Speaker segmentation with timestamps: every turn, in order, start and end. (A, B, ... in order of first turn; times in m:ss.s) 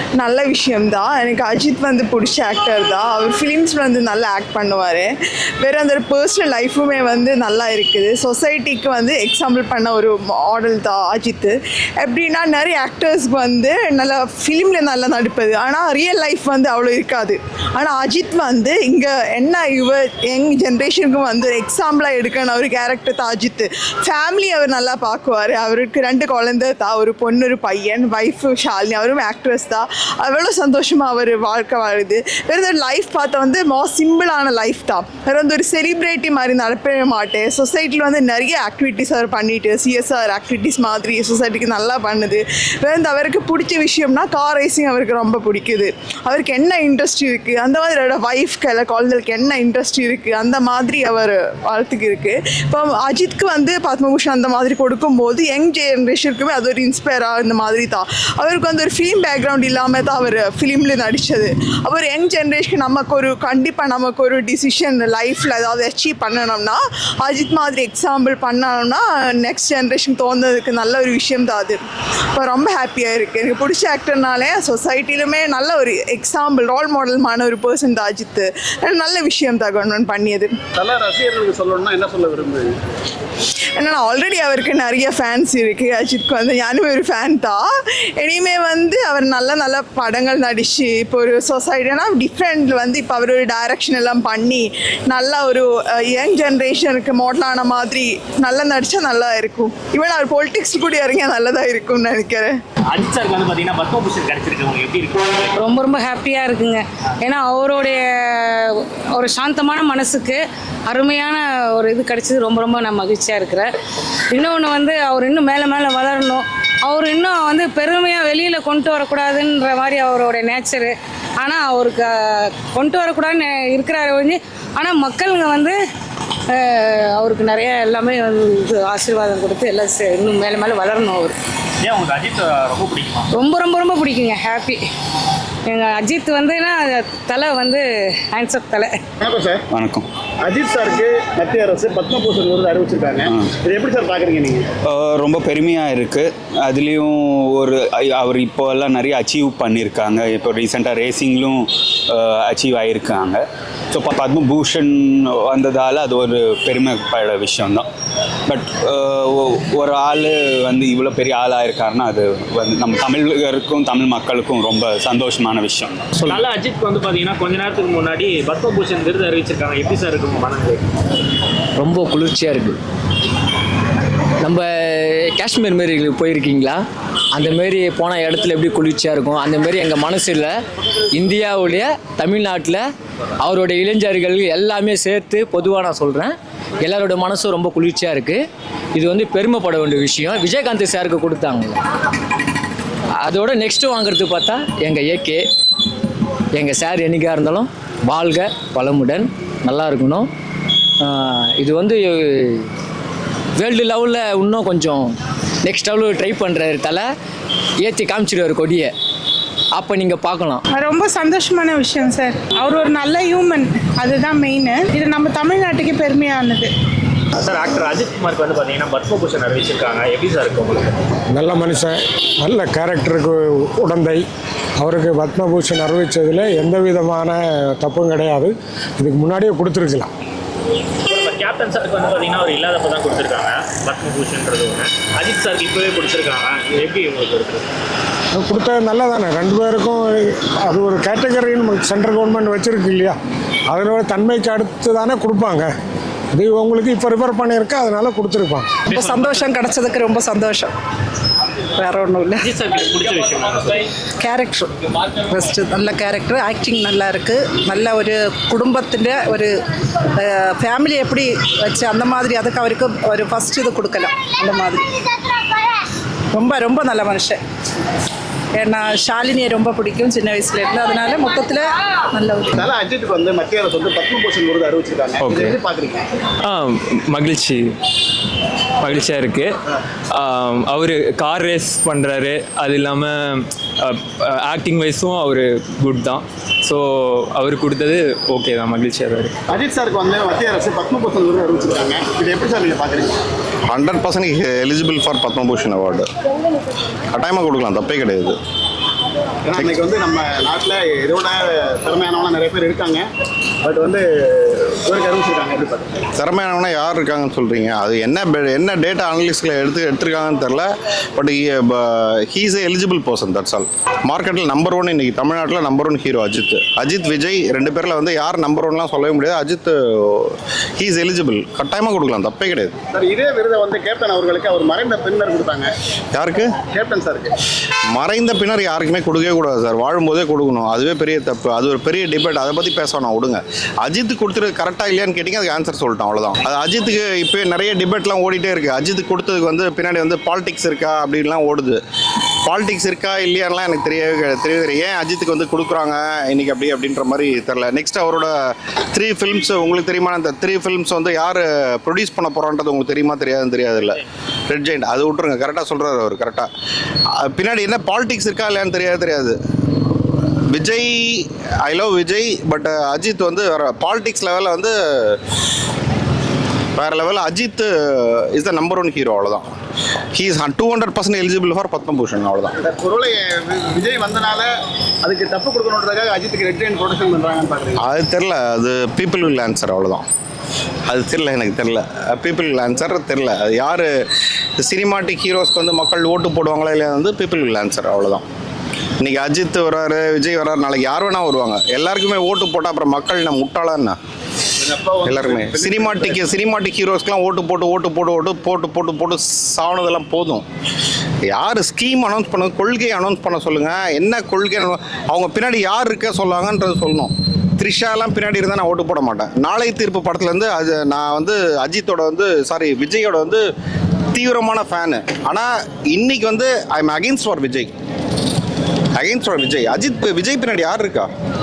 0:00.2-1:11.8 A
1:12.3-1:20.5 A
1:20.8-1:22.7 B
1:23.8-1:27.6 A
1:28.2-1:42.6 A
1:42.9-1:45.5 C
1:45.6-1:53.7 D
1:54.3-2:05.8 D
2:06.5-2:11.3 D
2:11.8-2:13.3 C
2:13.3-2:14.8 D
2:15.7-2:19.0 D
2:19.2-2:19.6 B
2:19.7-2:20.1 E
2:20.4-2:24.7 B
2:24.9-2:37.8 E
2:38.5-2:46.1 E
2:46.2-2:50.8 C
2:51.8-2:52.8 F
2:54.4-2:56.8 F
2:57.3-3:00.6 F
3:01.1-3:02.8 F
3:03.4-3:08.4 F
3:08.9-3:11.8 F
3:13.2-3:15.4 F
3:16.5-3:20.3 F
3:21.0-3:22.7 F
3:23.6-3:27.1 F
3:27.8-3:28.9 F
3:29.7-3:30.6 F
3:30.7-3:36.7 G
3:37.4-3:41.0 C
3:41.3-3:44.2 H
3:44.8-3:50.1 H
3:51.0-3:57.7 C
3:58.3-4:03.2 H
4:03.7-4:05.7 H
4:06.3-4:08.8 H
4:08.9-4:09.6 C
4:08.9-4:10.7 I
4:11.8-4:12.5 I
4:12.4-4:13.8 C
4:14.2-4:14.7 I
4:15.2-4:19.5 I
4:20.2-4:24.8 I
4:26.3-4:27.4 I
4:28.6-4:32.6 I
4:32.6-4:36.0 B
4:35.2-4:35.6 J
4:36.4-4:37.7 J
4:38.8-4:39.5 J
4:40.1-4:49.3 J
4:49.5-4:53.2 B
4:53.7-4:56.1 K
4:57.1-4:58.4 K
4:59.4-5:03.0 B
4:59.5-4:59.8 K
5:03.6-5:06.0 B
5:06.2-5:22.7 K
5:22.9-5:25.7 B
5:26.1-5:26.6 K
5:26.6-5:27.3 B
5:27.9-5:41.8 K
5:42.4-5:56.5 K
5:57.2-5:59.4 K
6:00.5-6:05.2 K
6:06.8-6:09.5 K
6:10.1-6:12.5 K
6:12.6-6:14.5 B
6:15.0-6:17.8 B
6:17.8-6:20.0 K
6:20.9-6:23.9 K
6:24.6-6:28.2 K
6:29.0-6:34.0 K
6:34.6-6:36.2 B
6:35.0-6:40.4 K
6:41.3-6:53.4 K
6:54.1-6:57.7 K
6:59.0-7:01.1 K